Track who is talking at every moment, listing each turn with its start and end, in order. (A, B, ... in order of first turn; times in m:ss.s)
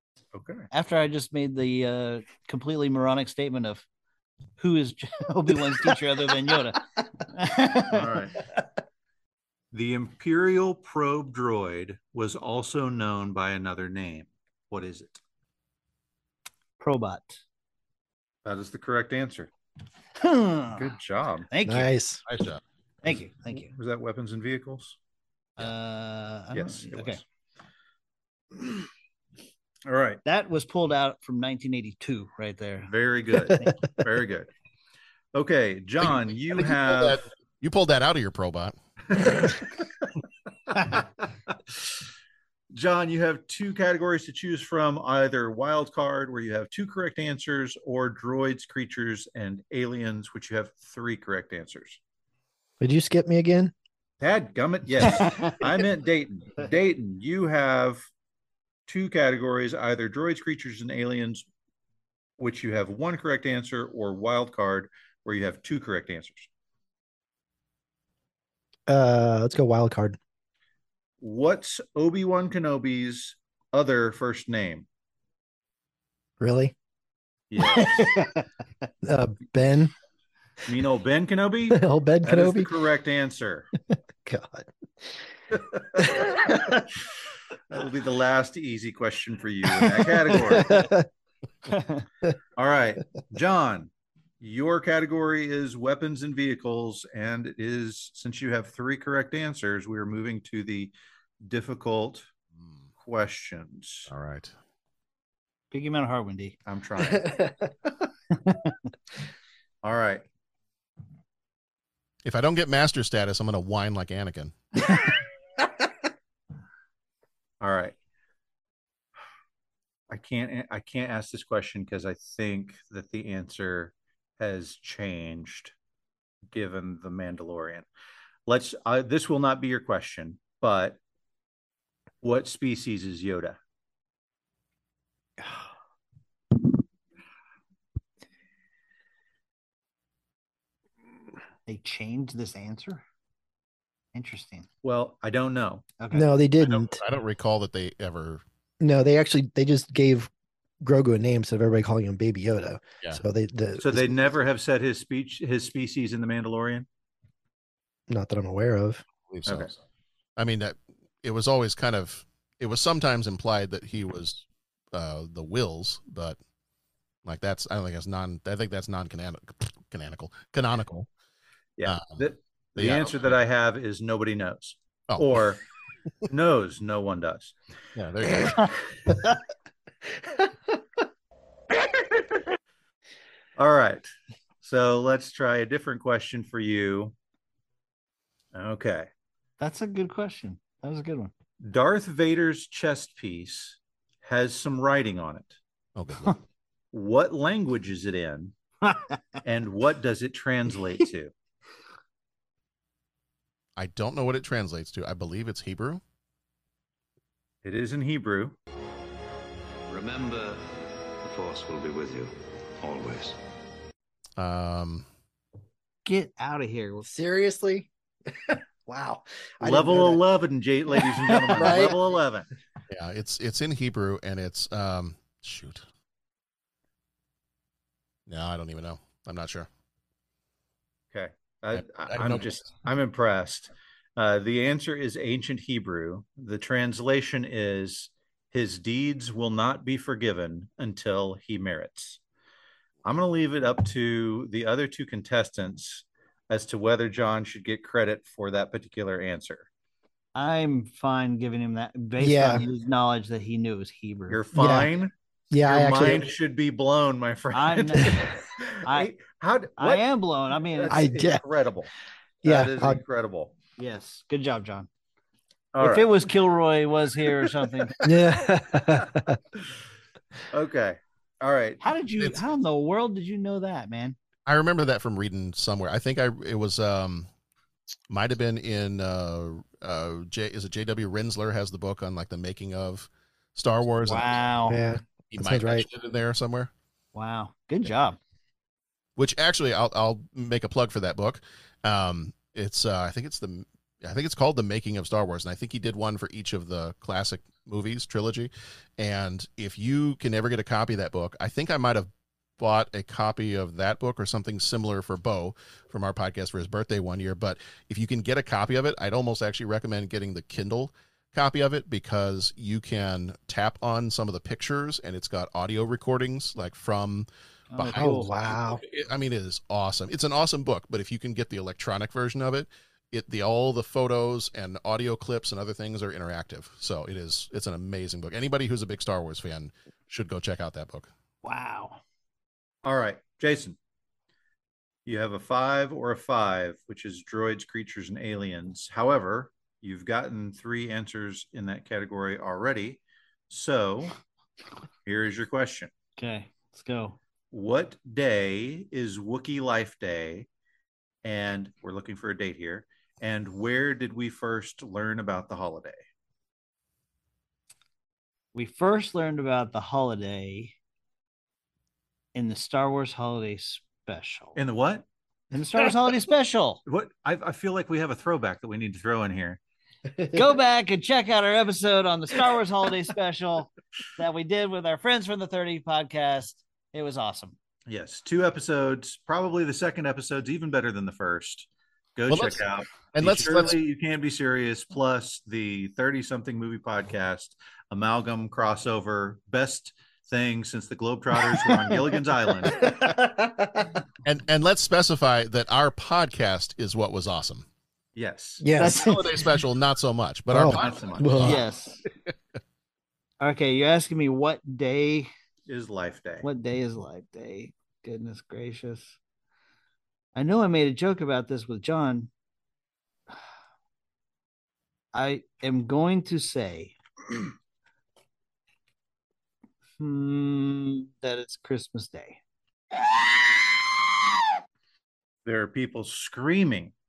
0:00.3-0:00.7 A
0:00.7-0:03.8 B
0:04.6-0:08.1 B
0:07.9-0:08.4 A
0:09.7-0:15.2 A
0:16.8-0:17.4 B
0:18.4-0:19.5 A
0:20.2-0:20.9 B
0:20.7-0:21.5 A
0:21.5-0:21.9 B
0:21.6-0:22.2 C
0:22.3-0:22.6 D
0:23.0-0:23.7 B
0:23.5-0:25.0 A
0:25.6-0:27.2 B
0:26.5-0:27.2 A
0:29.8-0:30.2 A
0:30.2-0:32.9 B
0:32.8-0:34.5 A
0:35.3-0:37.2 A
0:36.0-0:38.7 D
0:39.2-0:39.6 A
0:42.7-0:52.0 A
0:52.8-0:53.7 C
0:54.2-0:58.1 A
0:58.9-1:01.4 A
1:02.4-1:06.5 A
1:08.9-1:10.2 C
1:11.2-1:14.9 A
1:16.4-1:16.7 C
1:17.5-1:18.3 A
1:17.6-1:18.5 B
1:19.0-1:19.9 C
1:20.6-1:23.7 A
1:21.7-1:22.7 C
1:24.2-1:25.2 C
1:25.5-1:26.8 A
1:26.0-1:26.5 C
1:27.7-1:30.9 A
1:29.8-1:31.1 C
1:31.7-1:32.0 B
1:32.6-1:40.9 A
1:41.4-1:42.3 A
1:43.0-1:44.1 A
1:44.1-1:44.5 D
1:45.7-1:46.6 B
1:46.6-1:47.4 A
1:47.1-1:47.5 C
1:48.3-1:48.8 B
1:49.8-1:50.2 A
1:52.2-1:54.5 D
1:57.6-1:57.9 A
2:00.1-2:05.7 A
2:06.5-2:07.8 A
2:08.5-2:11.0 A
2:12.2-2:13.6 A
2:21.7-2:23.0 B
2:24.1-2:24.7 B
2:24.8-2:25.8 A
2:26.0-2:26.3 B
2:26.1-2:27.0 C
2:26.6-2:28.4 D
2:28.8-2:30.3 C
2:30.8-2:34.1 C
2:33.8-2:36.9 A
2:38.1-2:39.0 C
2:39.3-2:39.8 D
2:39.4-2:39.7 A
2:40.4-2:46.4 D
2:47.2-2:51.1 D
2:51.8-2:55.6 A
2:51.8-2:52.2 D
2:52.8-2:53.3 D
2:55.1-2:55.4 D
2:56.3-2:57.5 A
2:57.9-2:58.9 D
3:03.6-3:04.1 A
3:04.6-3:07.1 A
3:08.5-3:09.1 A
3:09.6-3:11.3 B
3:11.6-3:15.6 A
3:16.0-3:16.4 D
3:16.9-3:18.5 A
3:19.4-3:21.3 A
3:23.8-3:26.0 D
3:27.6-3:28.6 A
3:29.9-3:33.4 E
3:34.4-3:35.0 D
3:36.0-3:37.1 B
3:37.0-3:40.2 C
3:39.6-3:42.5 A
3:40.9-3:42.0 C
3:42.9-3:45.8 D
3:48.3-3:49.7 D
3:51.1-4:02.2 A
3:51.8-3:52.5 D
4:03.0-4:09.7 A
4:10.3-4:14.4 B
4:12.2-4:12.6 C
4:14.3-4:20.1 A
4:14.5-4:14.9 C
4:15.5-4:16.3 C
4:17.5-4:18.2 B
4:18.0-4:18.3 C
4:18.8-4:19.1 B
4:19.8-4:21.0 B
4:20.6-4:21.9 A
4:20.9-4:21.4 C
4:22.4-4:23.5 A
4:22.4-4:23.0 C
4:23.8-4:24.9 B
4:25.7-4:26.3 A
4:25.8-4:28.0 B
4:28.0-4:29.4 C
4:30.5-4:31.8 A
4:31.8-4:34.2 B
4:34.4-4:37.3 D
4:38.1-4:44.4 D
4:44.0-4:44.8 B
4:44.7-4:45.9 C
4:45.3-4:46.7 D
4:47.1-4:48.2 B
4:49.2-5:31.1 D
5:17.7-5:18.3 B
5:17.9-5:18.8 C
5:31.4-5:32.0 B
5:32.8-5:33.8 A
5:35.0-5:44.2 A
5:45.0-5:45.9 A
5:46.2-5:47.2 B
5:47.5-5:50.5 A
5:51.2-5:56.0 A
5:58.5-6:00.7 B
6:02.3-6:04.6 B
6:04.6-6:05.0 A
6:05.5-6:06.8 B
6:06.8-6:09.6 A
6:10.3-6:17.6 B
6:17.9-6:32.9 A
6:22.3-6:23.8 D
6:32.9-6:33.2 C
6:34.2-6:37.6 D
6:38.2-6:38.6 A
6:38.6-6:39.5 C
6:38.8-6:39.0 B
6:38.8-6:41.6 D
6:40.5-6:41.6 C
6:40.6-6:41.5 A
6:41.4-6:42.0 B
6:43.4-6:45.3 B
6:45.7-6:46.5 A
6:46.4-6:49.2 B
6:50.3-6:52.3 B
6:55.1-6:57.0 B
7:00.0-7:02.4 B
7:05.4-7:06.9 A